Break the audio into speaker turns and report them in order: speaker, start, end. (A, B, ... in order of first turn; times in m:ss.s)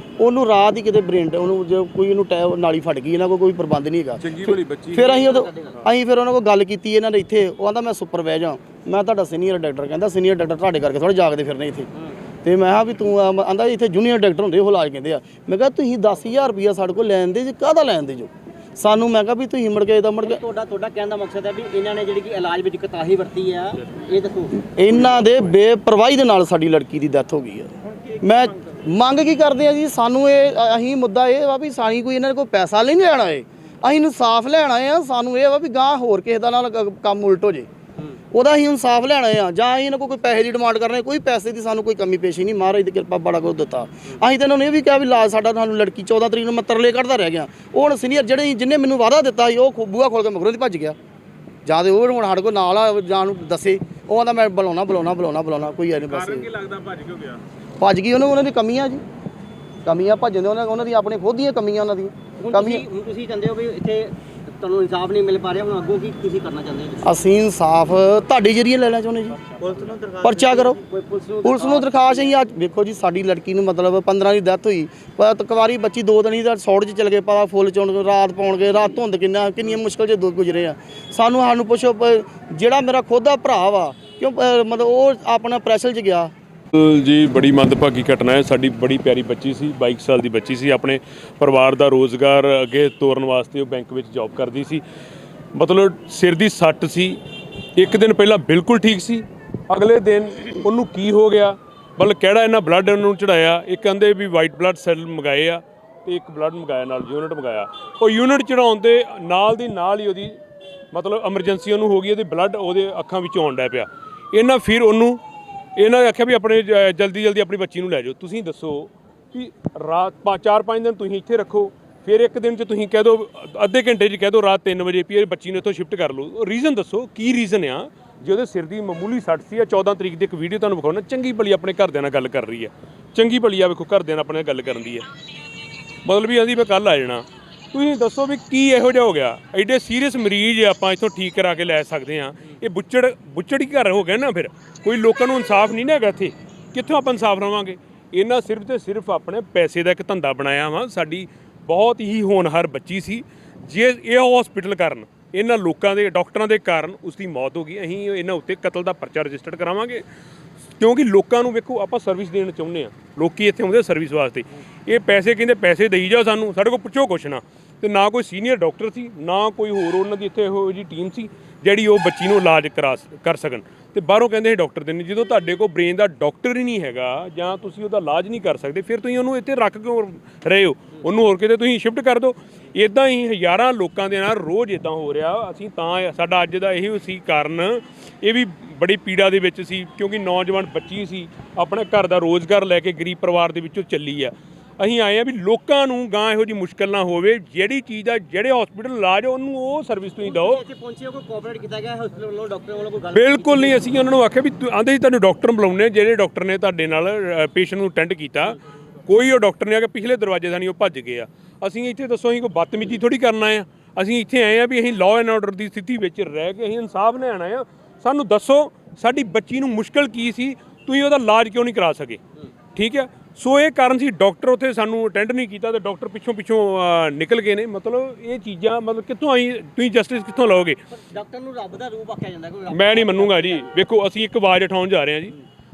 0:00.2-0:11.9 A
0:04.2-0:05.2 B
0:05.1-0:05.8 C
0:12.4-0:20.4 A
0:20.2-0:24.6 C
0:24.7-0:37.7 A
0:27.8-0:28.8 C
0:38.3-0:51.0 A
0:51.6-0:56.5 A
0:56.0-0:57.4 B
0:57.8-0:59.0 A
0:59.8-1:02.8 A
1:02.4-1:07.1 C
1:07.0-1:09.4 A
1:09.5-1:12.3 C
1:10.2-1:10.8 A
1:11.4-1:26.3 A
1:26.7-1:34.8 B
1:35.5-1:37.2 B
1:37.8-1:50.4 B
1:50.9-1:55.2 B
1:55.8-2:15.1 B
2:16.0-2:40.0 B
2:40.8-3:20.6 B
3:20.2-3:23.8 C
3:23.1-3:42.2 B
3:42.7-3:50.8 B
3:50.9-3:53.7 C
3:52.7-3:55.4 B